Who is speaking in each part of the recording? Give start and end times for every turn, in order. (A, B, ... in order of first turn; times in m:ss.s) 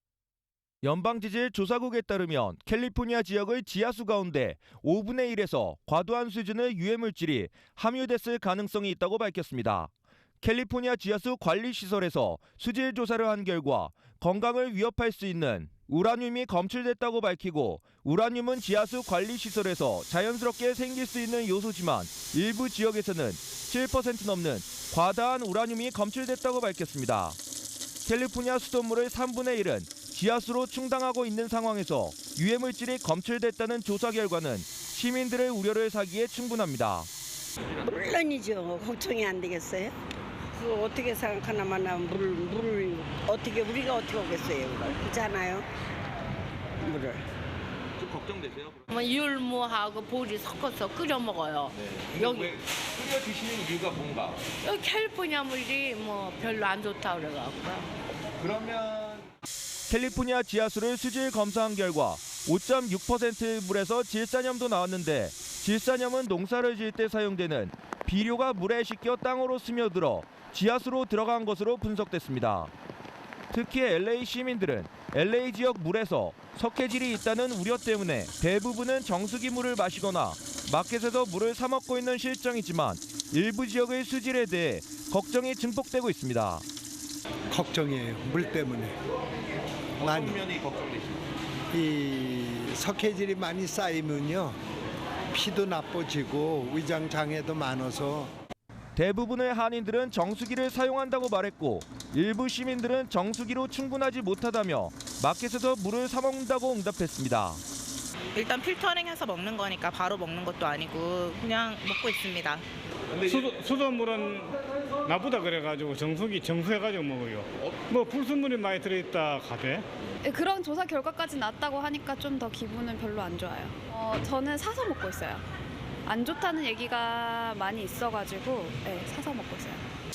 0:00.8-0:09.9 A
0:10.4-0:27.4 A
0:28.0-0:37.1 A
0:37.8-0:40.0 B
0:40.5-0:45.7 B
0:46.8-0:47.2 B
0:48.0-0:48.9 A
0:48.9-0:52.5 C
0:51.8-0:54.4 A
0:54.6-0:57.9 C
0:58.4-0:59.2 A
0:59.9-1:12.7 A
1:13.5-1:26.6 A
1:27.5-1:28.9 D
1:30.0-1:30.5 D
1:30.4-1:31.0 A
1:31.7-1:34.6 D
1:35.3-1:38.3 D
1:39.0-1:47.6 A
1:48.3-1:52.6 E
1:53.2-1:59.8 F
2:00.2-2:05.4 G
2:06.0-2:09.8 G